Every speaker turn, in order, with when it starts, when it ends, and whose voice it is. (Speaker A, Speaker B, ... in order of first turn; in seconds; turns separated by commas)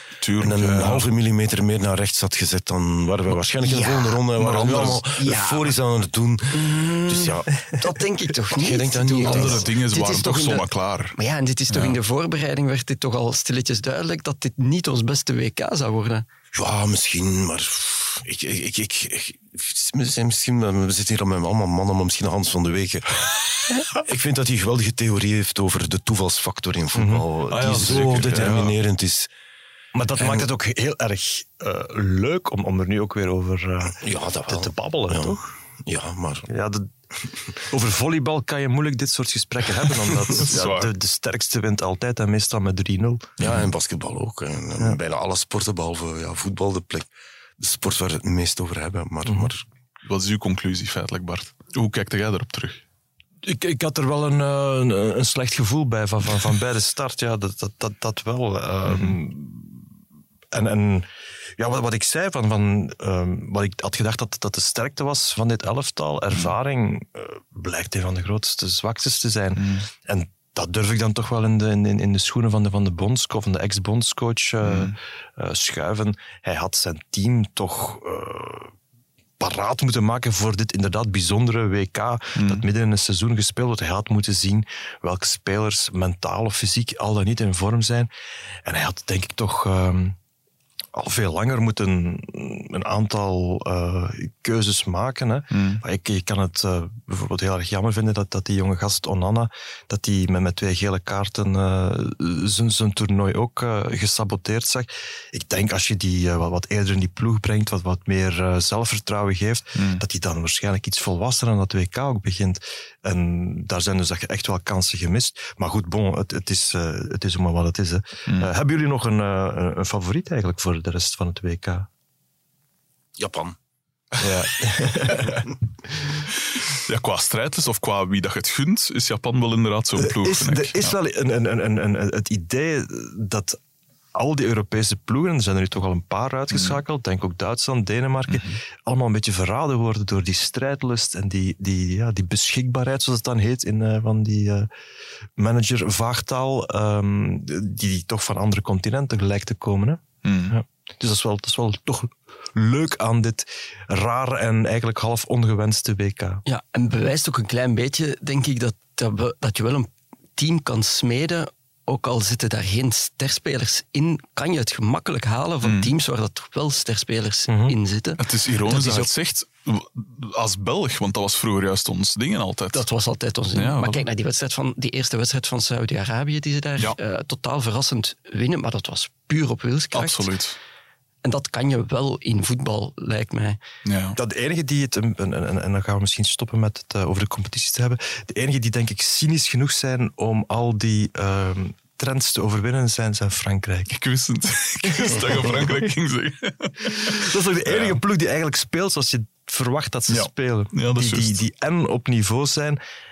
Speaker A: 0.2-1.1, Speaker B: 0.4-7.7, Speaker C: 3.6-4.2, Speaker A: 4.4-5.0, Speaker C: 5.2-5.6, Speaker C: 6.5-16.2, Speaker B: 8.5-9.7, Speaker A: 9.2-11.1, Speaker A: 11.7-11.9, Speaker B: 16.5-29.3, Speaker D: 26.9-28.7, Speaker A: 27.5-28.7, Speaker D: 29.9-35.5, Speaker B: 30.2-30.5, Speaker B: 33.9-36.5, Speaker D: 36.5-36.9, Speaker D: 37.6-43.4, Speaker A: 40.3-40.9, Speaker B: 43.4-47.1, Speaker B: 47.6-49.6, Speaker D: 49.2-49.5, Speaker A: 50.0-52.8, Speaker D: 53.4-59.8, Speaker A: 58.9-59.2, Speaker D: 60.5-78.7, Speaker A: 69.5-69.9, Speaker A: 74.6-75.0, Speaker D: 79.4-88.1, Speaker A: 82.4-82.7, Speaker D: 88.6-90.2, Speaker D: 90.9-121.9, Speaker A: 95.5-95.8, Speaker A: 109.8-110.0, Speaker B: 123.2-123.6, Speaker D: 124.2-125.5, Speaker A: 126.3-130.9, Speaker D: 130.0-133.6, Speaker D: 134.1-144.7, Speaker A: 136.5-136.8, Speaker A: 138.3-138.6, Speaker D: 145.4-156.4, Speaker A: 150.2-150.5, Speaker C: 156.4-169.1, Speaker A: 165.6-165.9, Speaker D: 167.5-167.7, Speaker A: 168.2-172.8, Speaker C: 172.7-180.3, Speaker A: 173.5-174.1, Speaker A: 179.9-180.6, Speaker C: 181.2-183.6, Speaker A: 183.8-184.2, Speaker D: 184.2-194.0, Speaker A: 193.9-198.0, Speaker D: 194.8-195.9, Speaker D: 197.0-202.8, Speaker A: 200.1-201.4